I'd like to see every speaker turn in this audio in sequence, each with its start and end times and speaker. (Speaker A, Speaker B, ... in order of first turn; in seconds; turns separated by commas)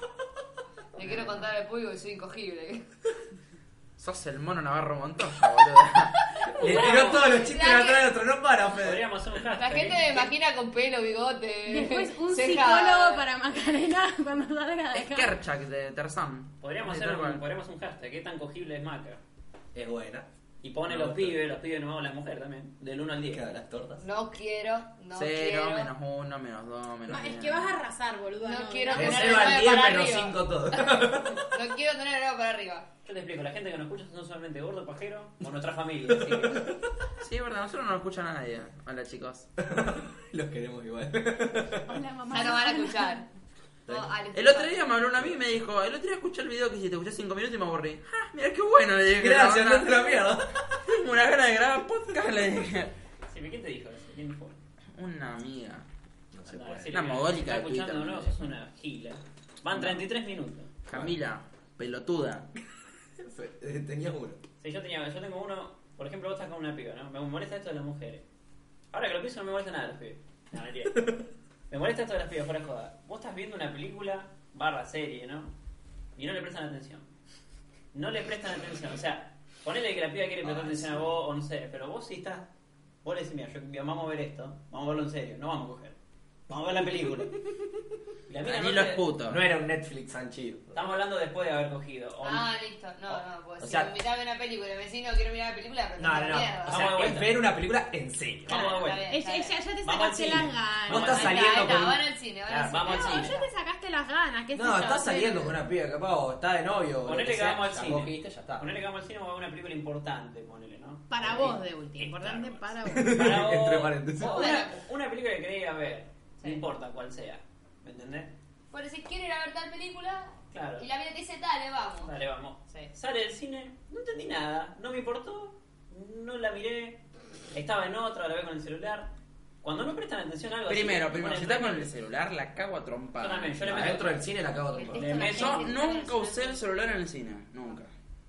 Speaker A: 1.0-2.9, Speaker B: 4.0-6.3, Speaker A: 6.4-8.1, Speaker C: 6.5-9.1, Speaker D: 6.6-7.4, Speaker D: 8.8-10.3, Speaker A: 9.5-13.2, Speaker E: 11.7-15.4, Speaker B: 14.9-17.4, Speaker D: 16.6-19.2, Speaker C: 19.7-20.3, Speaker D: 20.6-23.4, Speaker C: 20.9-21.4, Speaker C: 23.3-24.1, Speaker A: 24.0-25.9, Speaker B: 25.1-27.7, Speaker E: 27.1-29.6, Speaker A: 28.4-32.9, Speaker C: 28.9-31.5, Speaker D: 33.0-36.8, Speaker C: 36.1-36.8, Speaker B: 37.2-39.5, Speaker C: 39.6-42.0, Speaker E: 41.9-43.2, Speaker A: 42.3-43.3, Speaker C: 43.9-44.1, Speaker A: 43.9-45.0, Speaker B: 44.3-50.2, Speaker C: 49.1-51.0, Speaker B: 50.8-52.9, Speaker D: 53.3-54.6, Speaker B: 55.0-55.9, Speaker C: 56.3-57.0, Speaker D: 56.5-60.7, Speaker B: 56.9-58.3, Speaker B: 59.7-60.1, Speaker B: 60.9-62.5, Speaker C: 63.2-64.4, Speaker D: 64.6-68.2, Speaker D: 68.9-75.5, Speaker D: 76.2-77.1, Speaker D: 77.9-82.5, Speaker C: 80.4-81.1, Speaker D: 83.0-86.0, Speaker D: 86.5-87.3, Speaker C: 86.5-87.5, Speaker D: 88.3-89.1, Speaker B: 88.4-89.4, Speaker C: 89.3-90.9, Speaker D: 90.7-92.5, Speaker A: 92.2-97.1, Speaker C: 93.6-94.0, Speaker C: 96.0-98.6, Speaker D: 96.7-97.4, Speaker D: 98.5-99.1, Speaker A: 98.5-99.6, Speaker E: 98.6-101.2, Speaker D: 99.8-101.5, Speaker C: 100.9-102.8, Speaker A: 100.9-103.5, Speaker D: 102.6-103.3, Speaker E: 102.9-105.6, Speaker C: 104.5-108.7, Speaker D: 107.0-118.3, Speaker E: 111.1-113.3, Speaker C: 112.9-114.5, Speaker A: 114.2-114.8, Speaker A: 118.7-122.1, Speaker D: 120.5-120.9, Speaker D: 122.0-127.0, Speaker D: 127.5-131.9, Speaker B: 130.7-133.8, Speaker D: 133.2-134.3, Speaker C: 133.6-135.3, Speaker A: 134.7-136.6, Speaker D: 134.9-135.7, Speaker B: 135.2-137.9